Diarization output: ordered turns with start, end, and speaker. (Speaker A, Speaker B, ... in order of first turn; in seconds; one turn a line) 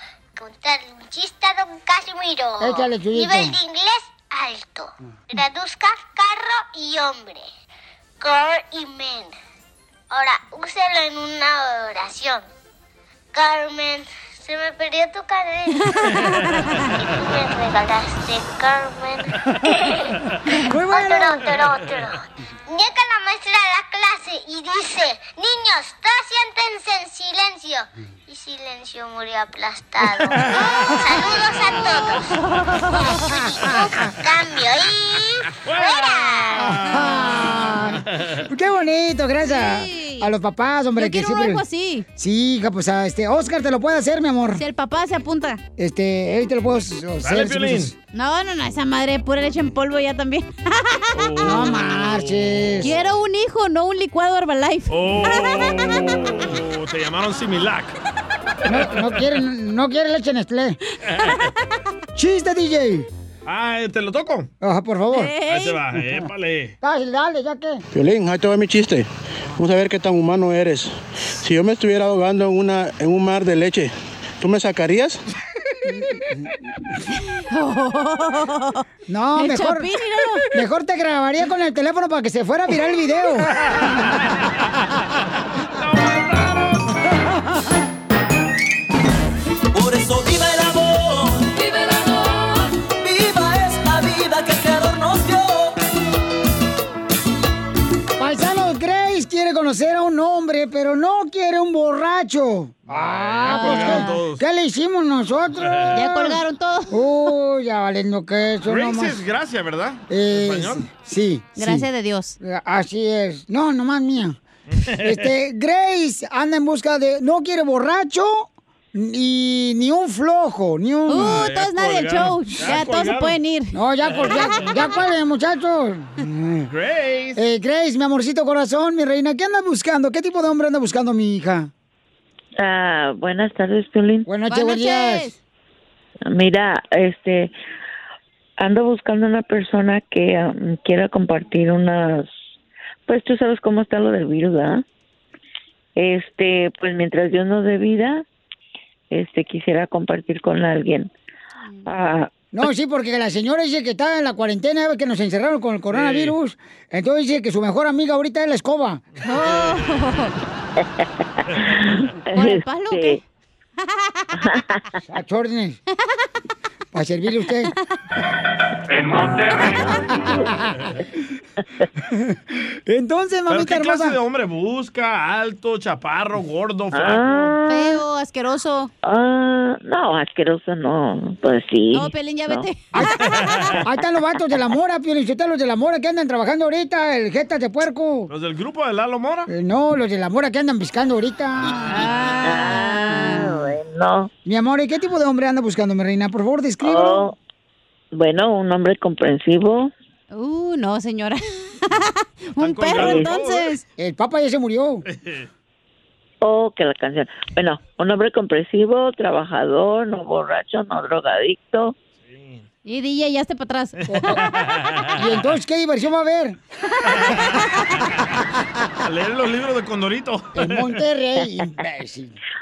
Speaker A: 0.4-7.5
Speaker B: 2.6-3.6
Speaker A: 8.2-9.3
Speaker A: 10.1-12.4
Speaker A: 13.3-15.9
Speaker C: 15.8-16.9
Speaker A: 17.0-20.1
Speaker B: 20.7-21.5
Speaker A: 20.9-32.3
Speaker C: 32.5-33.2
Speaker A: 33.1-36.7
Speaker B: 33.2-33.9
Speaker D: 35.6-38.5
Speaker B: 36.5-41.6
Speaker C: 39.5-40.3
Speaker C: 41.0-42.1
Speaker B: 42.2-44.6
Speaker C: 44.6-45.6
Speaker B: 45.8-47.9
Speaker D: 47.2-47.9
Speaker C: 48.1-51.3
Speaker D: 51.2-52.9
Speaker B: 51.4-52.9
Speaker C: 52.8-56.1
Speaker D: 54.9-58.0
Speaker B: 58.7-60.8
Speaker D: 58.7-59.1
Speaker B: 62.1-63.1
Speaker D: 63.5-64.5
Speaker B: 64.6-65.3
Speaker C: 65.1-65.8
Speaker D: 65.5-66.8
Speaker B: 66.8-67.8
Speaker E: 67.9-75.2
Speaker B: 76.0-76.5
Speaker C: 77.4-78.8
Speaker B: 79.1-79.9
Speaker C: 79.4-80.5
Speaker B: 80.5-83.5
Speaker D: 83.7-84.3
Speaker D: 85.7-86.9
Speaker F: 89.8-91.5
Speaker F: 93.0-95.7
Speaker B: 98.2-106.4
Speaker D: 102.9-104.4
Speaker C: 103.5-104.1
Speaker D: 105.6-105.9
Speaker C: 105.9-107.0
Speaker B: 106.9-109.2
Speaker D: 108.7-110.8
Speaker B: 110.1-111.9
Speaker C: 111.6-112.4
Speaker B: 112.4-114.4
Speaker D: 114.7-115.3
Speaker B: 115.0-121.4
Speaker C: 121.1-123.7
Speaker D: 121.2-123.4
Speaker B: 123.7-126.7
Speaker D: 126.7-127.4
Speaker B: 127.4-131.7
Speaker G: 132.6-134.3
Speaker B: 134.3-135.3
Speaker C: 134.5-135.4
Speaker G: 136.3-137.5
Speaker G: 138.6-142.3
Speaker G: 143.1-144.8
Speaker G: 146.0-148.2
Speaker G: 149.1-151.1
Speaker G: 151.9-152.3
Speaker B: 152.5-159.0
Speaker D: 155.9-156.4
Speaker C: 159.2-160.3
Speaker D: 159.6-159.9
Speaker G: 160.8-163.2
Speaker C: 162.3-163.2
Speaker G: 164.4-164.9
Speaker B: 165.1-165.8
Speaker B: 166.9-167.7
Speaker G: 169.7-170.4
Speaker B: 170.1-170.8
Speaker B: 172.1-174.2
Speaker D: 173.5-177.5
Speaker G: 176.9-178.0
Speaker C: 177.7-178.9
Speaker G: 179.0-182.7
Speaker C: 181.9-183.7
Speaker B: 183.8-188.3
Speaker D: 188.3-189.5
Speaker B: 189.5-192.1
Speaker C: 191.9-193.6
Speaker G: 192.4-194.3
Speaker B: 194.4-197.3
Speaker G: 196.8-197.3
Speaker G: 198.1-199.9
Speaker C: 200.3-203.8
Speaker D: 202.6-203.7
Speaker G: 203.0-203.3
Speaker B: 204.0-205.0
Speaker D: 205.1-205.5
Speaker G: 206.4-211.9
Speaker D: 212.3-212.6
Speaker C: 212.8-214.1
Speaker B: 214.1-214.4
Speaker D: 214.3-215.1
Speaker B: 215.2-216.6
Speaker D: 217.2-217.6
Speaker D: 219.0-221.0
Speaker B: 220.6-222.4